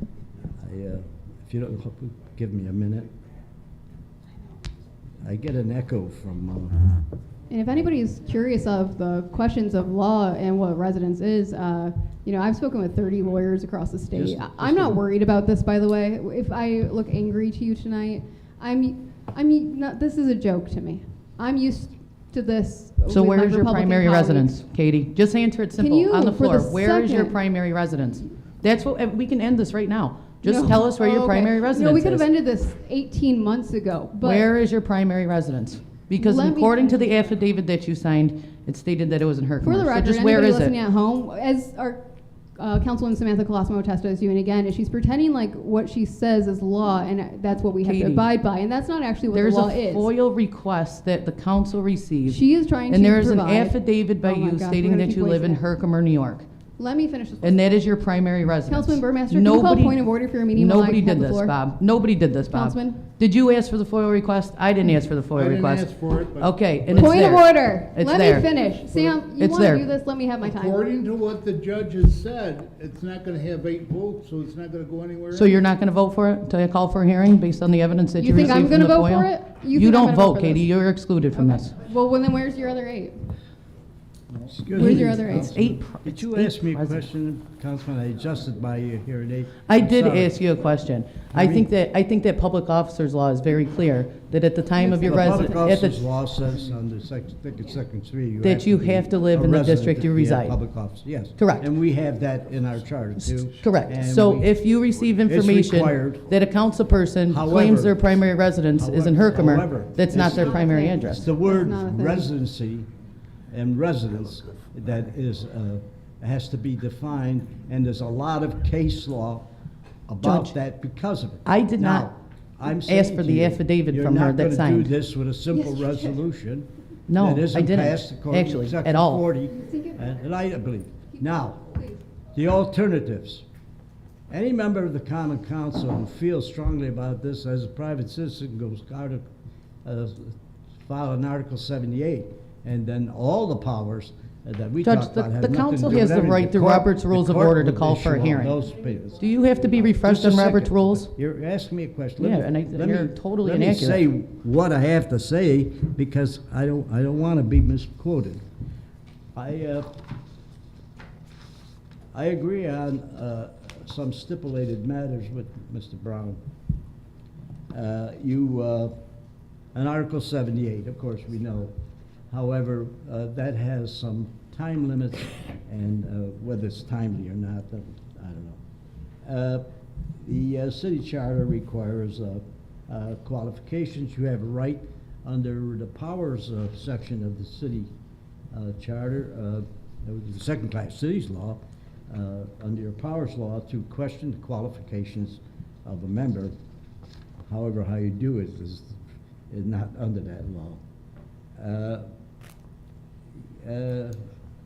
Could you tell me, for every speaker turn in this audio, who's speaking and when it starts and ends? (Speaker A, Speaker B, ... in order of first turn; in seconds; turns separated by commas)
Speaker A: 0.6-3.1, Speaker A: 5.2-6.9, Speaker B: 7.5-24.6, Speaker A: 14.1-15.0, Speaker C: 23.1-32.3, Speaker B: 25.8-27.4, Speaker B: 30.4-34.5, Speaker C: 34.2-40.8, Speaker B: 36.2-37.1, Speaker B: 39.6-42.0, Speaker B: 42.6-50.1, Speaker C: 47.8-48.2, Speaker C: 49.3-56.5, Speaker B: 52.3-55.6, Speaker B: 56.8-57.8, Speaker C: 57.4-60.0, Speaker B: 58.7-61.6, Speaker C: 60.5-68.5, Speaker B: 62.5-63.0, Speaker D: 65.3-67.2, Speaker B: 66.9-70.8, Speaker D: 68.7-69.2, Speaker C: 69.4-69.8, Speaker D: 70.4-75.6, Speaker C: 75.3-81.7, Speaker B: 78.2-80.7, Speaker B: 81.4-83.1, Speaker A: 84.5-90.4, Speaker B: 84.7-85.6, Speaker C: 84.8-87.0, Speaker C: 89.7-96.0, Speaker A: 91.3-91.7, Speaker B: 94.8-95.5, Speaker A: 94.9-104.5, Speaker C: 98.4-100.6, Speaker C: 101.4-101.7, Speaker C: 103.2-111.3, Speaker A: 105.2-106.3, Speaker A: 107.3-108.0, Speaker A: 108.8-110.6, Speaker B: 110.1-112.3, Speaker A: 111.2-112.9, Speaker A: 113.5-119.5, Speaker A: 120.1-131.6, Speaker C: 120.2-120.5, Speaker C: 121.5-122.1, Speaker C: 122.8-124.9, Speaker C: 127.1-129.2, Speaker B: 129.6-129.9, Speaker A: 132.3-133.4, Speaker A: 134.3-139.2, Speaker A: 139.8-149.2, Speaker C: 144.8-148.6, Speaker C: 149.2-151.1, Speaker A: 149.8-158.4, Speaker C: 152.2-154.0, Speaker A: 159.3-159.9, Speaker A: 162.1-166.4, Speaker A: 167.7-168.9, Speaker A: 169.7-171.7, Speaker A: 172.3-178.6, Speaker A: 179.2-179.7, Speaker A: 180.2-187.9, Speaker A: 188.5-196.5, Speaker A: 197.5-198.9, Speaker A: 199.5-200.8, Speaker A: 201.6-202.1, Speaker A: 203.6-204.2